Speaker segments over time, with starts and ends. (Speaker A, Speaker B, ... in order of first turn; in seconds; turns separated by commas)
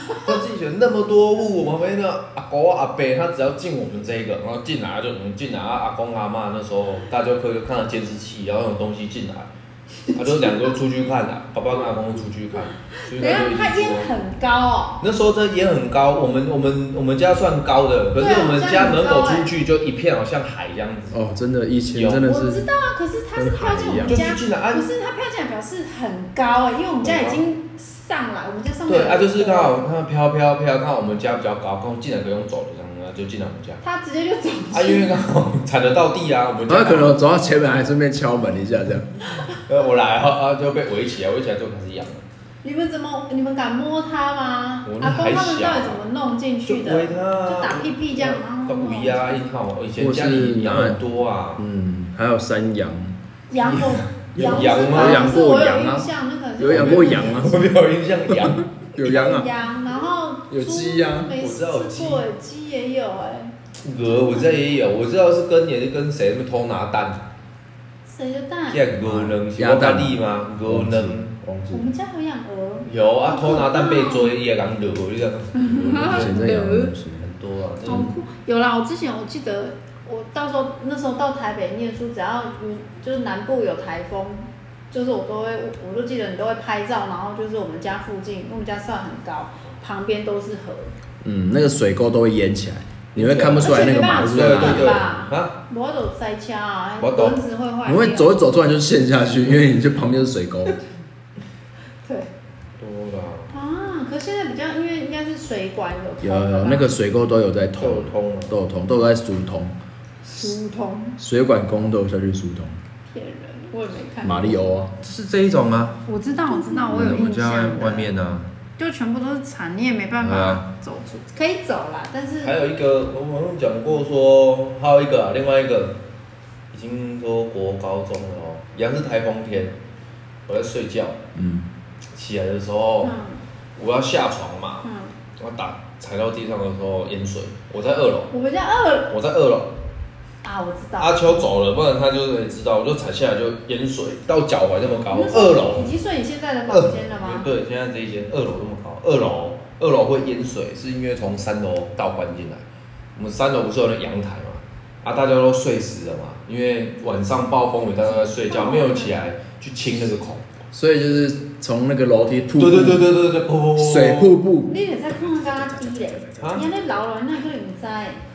Speaker A: 0.1-9.5, Speaker A: 10.1-14.1, Speaker B: 13.0-15.0, Speaker A: 15.0-21.2, Speaker B: 18.2-19.5, Speaker C: 21.1-22.7, Speaker A: 21.9-22.3, Speaker B: 22.3-29.8, Speaker C: 23.4-24.2, Speaker A: 24.0-24.9, Speaker A: 27.0-27.4, Speaker A: 28.9-33.8, Speaker B: 33.8-35.2, Speaker A: 34.7-37.2, Speaker C: 36.7-39.4, Speaker A: 39.5-42.2, Speaker B: 42.6-49.4, Speaker A: 44.9-46.0, Speaker A: 46.7-51.6, Speaker C: 50.0-51.0, Speaker C: 51.6-53.2, Speaker B: 53.5-57.5, Speaker A: 53.7-55.4, Speaker C: 54.4-57.7, Speaker A: 56.6-58.8, Speaker C: 58.3-59.5, Speaker B: 59.0-64.8, Speaker C: 60.5-61.4, Speaker A: 61.4-62.2, Speaker A: 63.8-67.3, Speaker B: 68.1-68.9, Speaker A: 68.7-71.3, Speaker C: 68.9-71.9, Speaker B: 71.7-74.3, Speaker A: 72.8-76.4, Speaker B: 75.5-76.9, Speaker C: 75.9-77.3, Speaker A: 77.2-78.2, Speaker B: 77.9-90.9, Speaker C: 91.2-95.0, Speaker A: 93.2-95.5, Speaker B: 93.6-98.3, Speaker A: 97.0-97.4, Speaker C: 97.8-100.8, Speaker B: 102.0-102.3, Speaker A: 102.8-103.5, Speaker B: 103.5-106.9, Speaker C: 106.2-109.8, Speaker A: 107.8-108.5, Speaker B: 110.2-111.2, Speaker C: 111.2-112.8, Speaker B: 113.1-114.5, Speaker C: 114.2-114.9, Speaker A: 115.0-116.0, Speaker B: 116.1-118.1, Speaker A: 116.7-118.5, Speaker B: 118.8-122.5, Speaker A: 120.2-120.6, Speaker A: 122.4-126.0, Speaker A: 126.7-129.8, Speaker A: 130.5-131.2, Speaker C: 131.3-131.7, Speaker A: 132.2-133.2, Speaker B: 133.0-133.4, Speaker A: 133.8-138.3, Speaker B: 134.8-135.1, Speaker B: 138.3-139.1, Speaker A: 139.1-139.7, Speaker B: 140.4-141.5, Speaker A: 141.0-145.9, Speaker B: 145.1-147.5, Speaker A: 146.7-160.5, Speaker B: 158.0-159.2, Speaker C: 160.7-163.1, Speaker A: 162.6-164.4, Speaker C: 163.8-166.7, Speaker B: 164.7-168.2, Speaker A: 166.4-166.7